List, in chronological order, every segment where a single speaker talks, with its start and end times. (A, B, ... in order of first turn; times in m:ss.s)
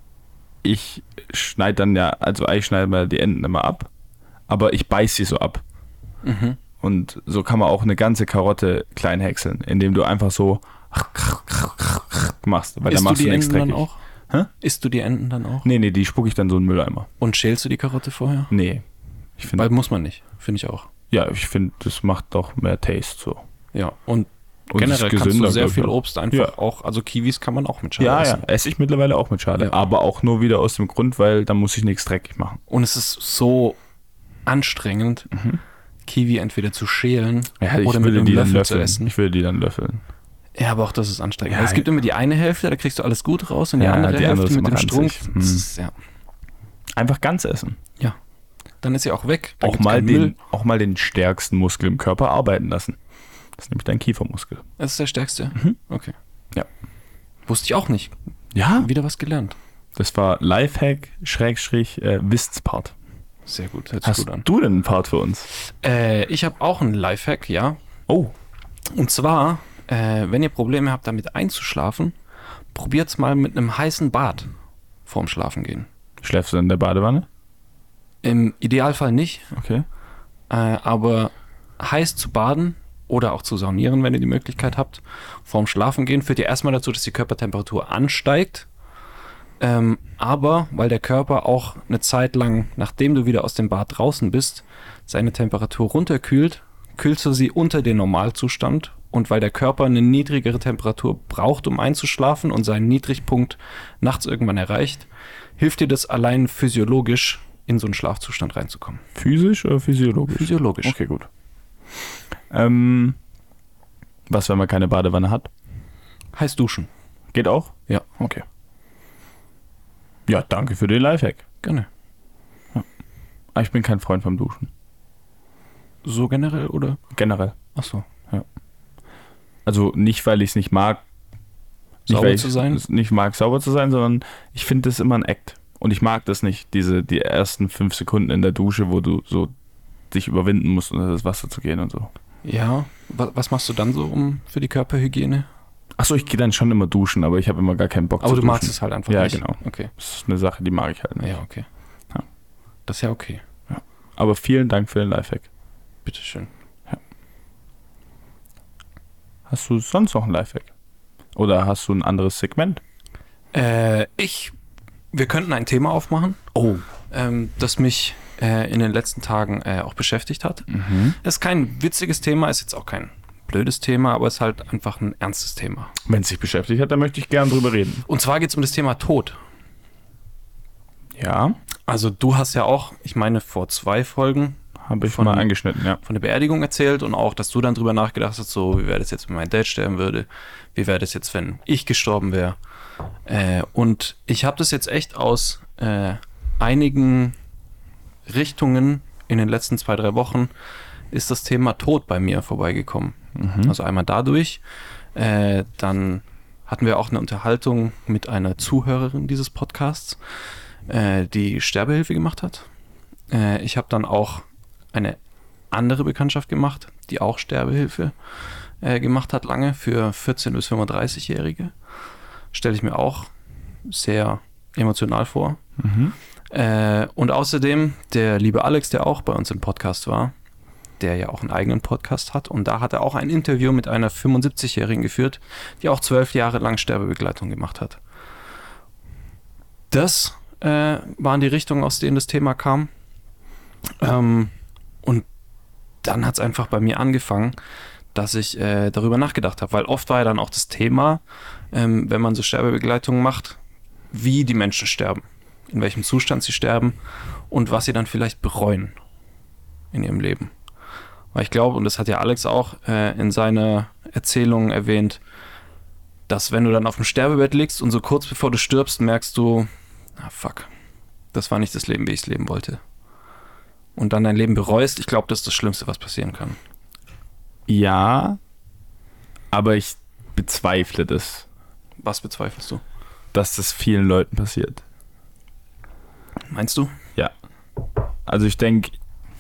0:00.6-0:03.9 A
0:04.5-0:05.6 A
0:06.2-0:06.6 B
0:06.8-0:14.5 A
0:12.9-0:14.0 B
0:14.6-0:15.7 B
0:15.6-0:17.1 A
0:17.2-0:18.5 B
0:18.5-0:18.8 A
0:19.4-0:19.7 A
0:19.5-0:20.9 B
0:21.1-0:23.4 A
0:23.7-0:28.4 B
0:24.7-0:26.5 A
0:28.0-0:32.6 A
0:32.7-0:33.8 B
0:34.4-0:35.3 B
0:35.3-0:35.6 A
0:36.0-0:39.1 B
0:37.6-0:40.0 A
0:40.6-0:45.9 B
0:41.5-0:41.9 A
0:43.8-0:45.6 A
0:47.0-0:47.8 A
0:48.8-0:50.3 B
0:49.6-0:53.0 A
0:53.6-0:54.6 A
0:54.8-0:56.1 B
0:57.5-0:58.1 B
0:58.5-0:58.9 A
0:58.7-0:59.6 B
1:00.0-1:02.9 A
1:03.4-1:04.4 B
1:04.0-1:05.5 A
1:05.6-1:07.8 B
1:08.1-1:08.3 A
1:08.9-1:12.1 B
1:12.7-1:14.5 B
1:15.0-1:15.9 B
1:16.2-1:17.3 A
1:18.2-1:19.5 B
1:19.5-1:19.9 A
1:20.5-1:28.7 B
1:29.6-1:45.1 B
1:45.6-1:49.0 B
1:49.1-1:51.3 A
1:50.3-1:51.0 B
1:52.5-1:53.2 A
1:54.3-1:55.5 A
1:56.3-1:56.9 B
1:57.3-1:58.4 A
2:00.3-2:01.4 A
2:01.6-2:01.9 B
2:03.6-2:04.7 A
2:06.0-2:07.0 B
2:07.1-2:07.6 A
2:07.7-2:08.0 B
2:09.6-2:11.0 A
2:12.0-2:19.5 A
2:12.1-2:12.8 B
2:20.1-2:22.1 A
2:22.4-2:25.5 B
2:26.0-2:31.3 A
2:28.2-2:29.9 B
2:31.2-2:31.6 B
2:32.9-2:33.4 B
2:33.7-2:35.5 A
2:36.0-2:36.5 B
2:39.5-2:40.7 A
2:41.3-2:42.8 A
2:43.5-2:44.6 B
2:45.1-2:46.5 B
2:46.6-2:46.8 A
2:47.1-2:50.7 B
2:50.7-2:51.2 A
2:51.2-2:55.9 B
2:56.0-2:58.0 A
2:58.1-2:59.4 B
3:01.2-3:01.6 A
3:01.9-3:12.6 B
3:04.8-3:06.0 A
3:13.3-3:17.3 B
3:18.3-3:20.5 B
3:21.1-3:24.6 B
3:23.3-3:23.7 A
3:25.1-3:30.2 B
3:30.9-3:32.6 B
3:33.3-3:35.2 B
3:35.7-3:38.1 B
3:38.8-3:41.7 B
3:42.5-3:43.3 B
3:43.8-3:45.6 B
3:45.8-3:46.1 A
3:46.5-3:50.3 B
3:51.0-3:58.0 B
3:59.9-4:02.9 B
4:04.0-4:05.2 B
4:06.0-4:07.6 B
4:08.1-4:11.2 B
4:11.7-4:13.6 B
4:14.1-4:17.0 B
4:17.5-4:18.9 B
4:19.9-4:20.5 B
4:21.3-4:25.2 B
4:26.3-4:30.7 B
4:31.3-4:32.8 B
4:34.0-4:36.6 B
4:37.7-4:38.4 A
4:39.5-4:41.4 A
4:42.0-4:42.8 B
4:43.3-4:44.8 A
4:46.5-4:46.9 B
4:48.3-4:48.9 A